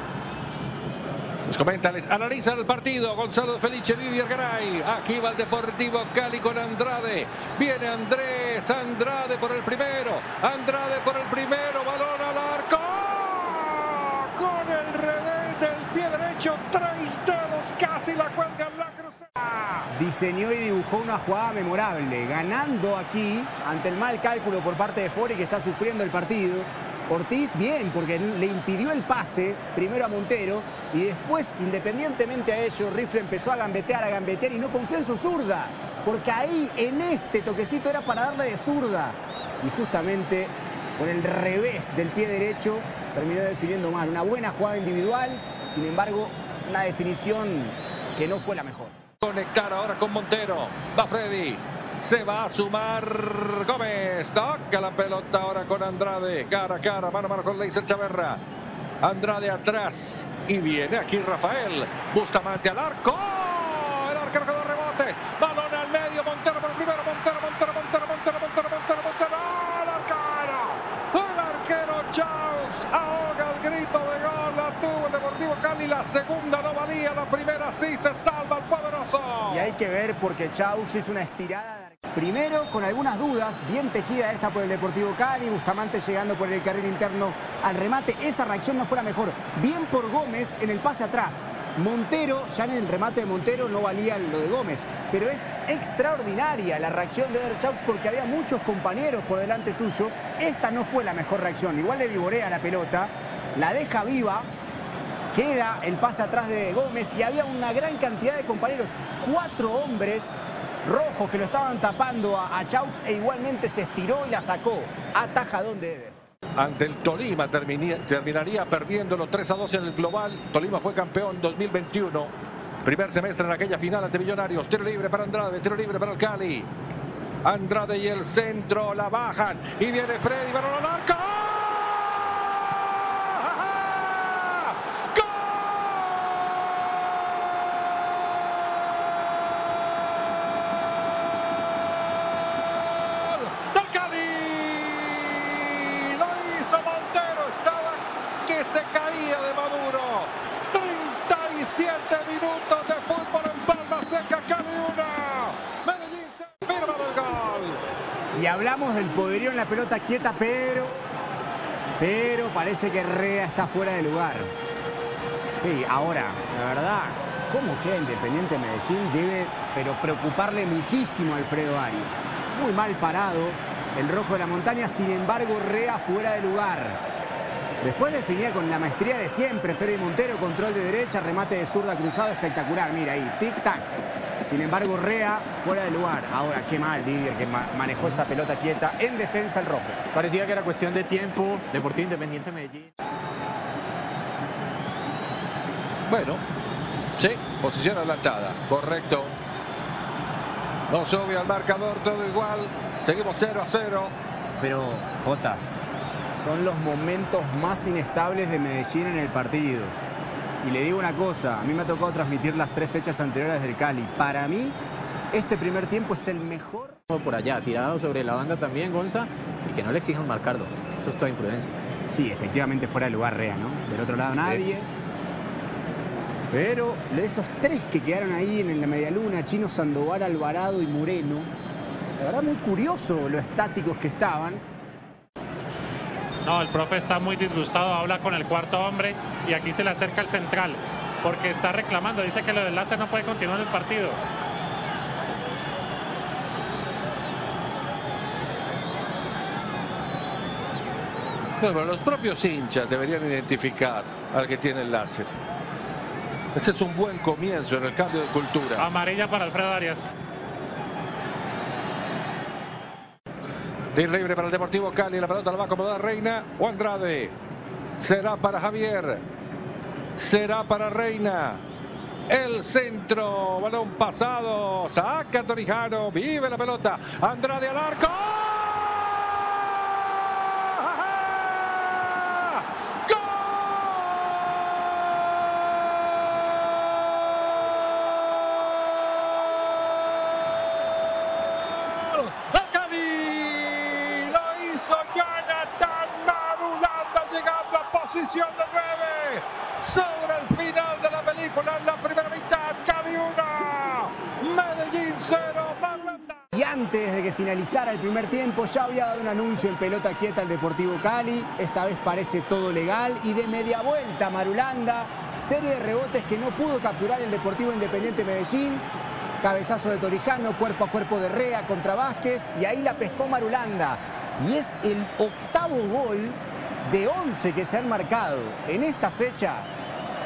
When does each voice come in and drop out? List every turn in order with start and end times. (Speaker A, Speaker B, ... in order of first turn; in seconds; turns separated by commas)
Speaker A: 1.4-19.9, Speaker B: 19.9-48.9, Speaker A: 49.2-58.4, Speaker A: 59.0-79.8, Speaker B: 79.5-104.5, Speaker B: 105.3-116.2, Speaker A: 116.6-122.3, Speaker A: 122.8-126.7, Speaker A: 127.4-137.6, Speaker A: 138.1-138.9, Speaker A: 141.3-157.8, Speaker B: 158.3-161.0, Speaker B: 162.0-164.5, Speaker B: 165.5-177.0, Speaker B: 177.8-190.0, Speaker C: 190.1-192.9, Speaker A: 196.1-196.4, Speaker A: 197.2-199.3, Speaker A: 200.9-204.1, Speaker B: 204.6-205.8, Speaker B: 206.4-209.9, Speaker B: 210.6-214.8, Speaker B: 215.3-217.0, Speaker C: 217.1-221.8, Speaker B: 222.1-224.9, Speaker B: 226.5-231.5, Speaker B: 232.2-234.6, Speaker D: 236.4-244.2, Speaker A: 251.6-255.3, Speaker A: 256.5-258.9, Speaker D: 258.8-260.0, Speaker A: 263.9-267.4, Speaker A: 268.0-269.2, Speaker A: 270.1-271.6, Speaker A: 272.3-286.2, Speaker A: 289.2-290.3, Speaker A: 291.4-306.4, Speaker B: 306.5-318.8, Speaker B: 319.4-329.7